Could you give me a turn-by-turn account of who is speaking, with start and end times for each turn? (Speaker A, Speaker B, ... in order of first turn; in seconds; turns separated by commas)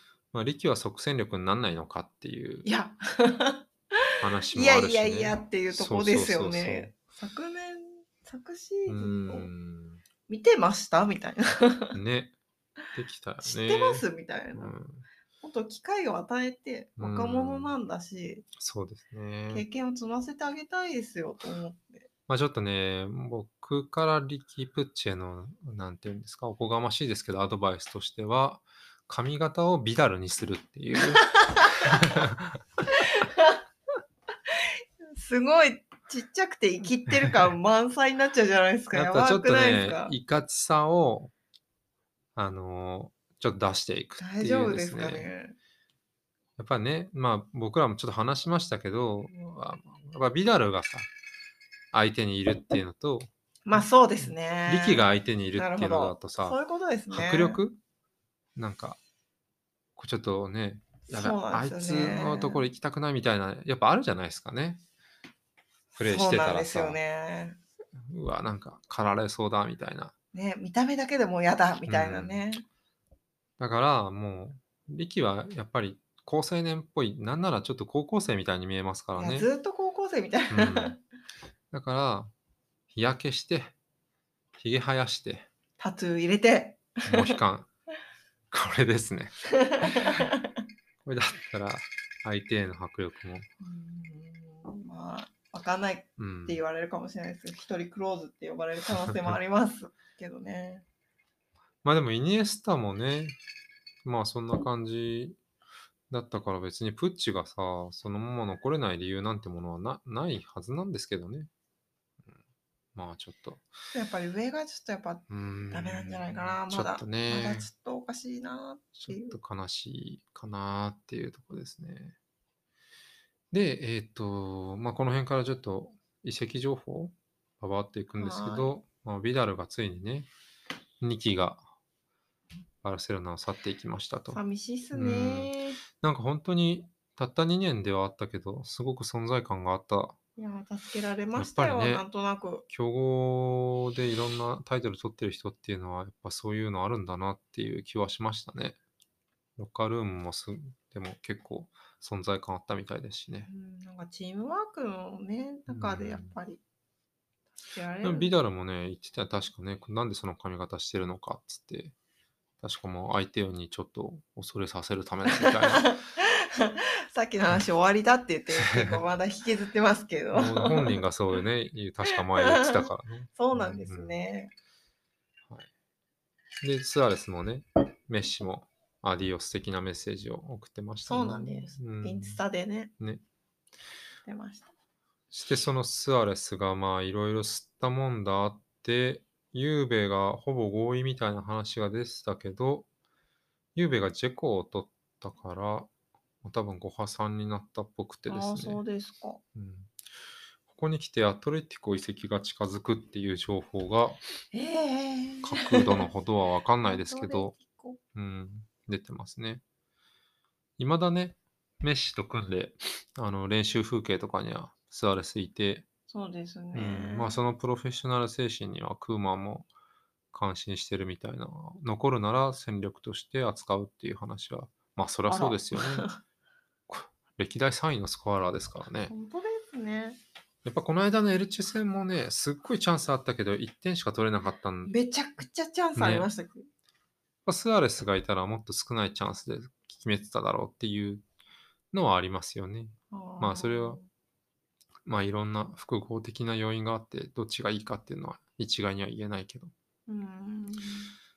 Speaker A: 0.3-2.7, Speaker B: 2.6-9.5, Speaker A: 4.2-6.9, Speaker A: 8.9-10.0, Speaker B: 10.3-12.0, Speaker A: 11.9-12.3, Speaker A: 12.9-15.0, Speaker B: 13.4-14.7, Speaker B: 15.4-18.5, Speaker A: 17.0-17.7, Speaker A: 18.5-19.6, Speaker B: 19.5-22.1, Speaker A: 22.3-32.6, Speaker B: 31.2-32.0, Speaker B: 32.9-33.6, Speaker B: 34.5-40.1, Speaker A: 37.1-37.5, Speaker A: 38.9-41.3, Speaker A: 42.4-45.3, Speaker B: 44.2-45.5, Speaker A: 46.6-51.1, Speaker A: 51.9-56.6, Speaker B: 53.6-57.6, Speaker A: 57.1-57.8, Speaker A: 58.5-59.0, Speaker A: 60.0-64.8, Speaker B: 61.1-62.7, Speaker B: 65.9-67.6, Speaker A: 66.0-67.0, Speaker A: 68.0-70.1, Speaker B: 70.3-72.6, Speaker A: 71.8-72.4, Speaker A: 73.6-79.5, Speaker B: 79.1-81.0, Speaker A: 80.5-81.0, Speaker A: 81.7-82.3, Speaker A: 82.9-83.7, Speaker A: 84.6-85.5, Speaker B: 85.8-87.4, Speaker A: 87.0-87.7, Speaker A: 88.5-90.2, Speaker B: 89.5-90.6, Speaker A: 91.0-93.5, Speaker B: 93.6-100.8, Speaker A: 96.2-96.6, Speaker A: 99.0-99.4, Speaker A: 101.8-103.4, Speaker A: 104.0-105.4, Speaker A: 106.1-111.5, Speaker A: 112.9-113.7, Speaker B: 113.9-119.4, Speaker A: 115.3-117.7, Speaker A: 119.0-122.1, Speaker A: 123.5-130.3, Speaker B: 128.2-128.7, Speaker A: 131.0-131.6, Speaker A: 132.8-134.4, Speaker B: 134.3-135.8, Speaker A: 134.9-140.2, Speaker B: 140.4-142.6, Speaker A: 141.3-142.0, Speaker A: 142.7-148.8, Speaker A: 149.6-153.5, Speaker B: 153.4-156.6, Speaker A: 155.7-156.3, Speaker B: 157.5-158.3, Speaker A: 158.0-161.9, Speaker A: 162.6-166.0, Speaker B: 165.2-171.0, Speaker A: 168.6-169.0, Speaker A: 170.3-174.2, Speaker B: 172.1-174.5, Speaker A: 176.6-182.4, Speaker B: 181.0-182.9, Speaker B: 184.2-184.7, Speaker A: 185.3-192.9, Speaker A: 193.7-195.9, Speaker A: 196.4-198.8, Speaker B: 198.3-199.4, Speaker A: 199.5-200.0, Speaker A: 200.7-204.2, Speaker B: 204.5-206.1, Speaker A: 205.4-207.5, Speaker B: 206.8-208.0, Speaker A: 208.1-209.6, Speaker A: 210.8-215.8, Speaker B: 216.1-217.4, Speaker A: 216.7-219.7, Speaker A: 220.3-226.1, Speaker B: 225.3-226.2, Speaker A: 226.9-229.1, Speaker B: 229.1-230.2, Speaker A: 230.6-234.9, Speaker B: 234.9-236.7, Speaker A: 235.9-236.3, Speaker A: 237.4-241.2, Speaker A: 241.9-244.0, Speaker B: 243.1-244.1, Speaker A: 245.1-249.7, Speaker B: 250.1-251.2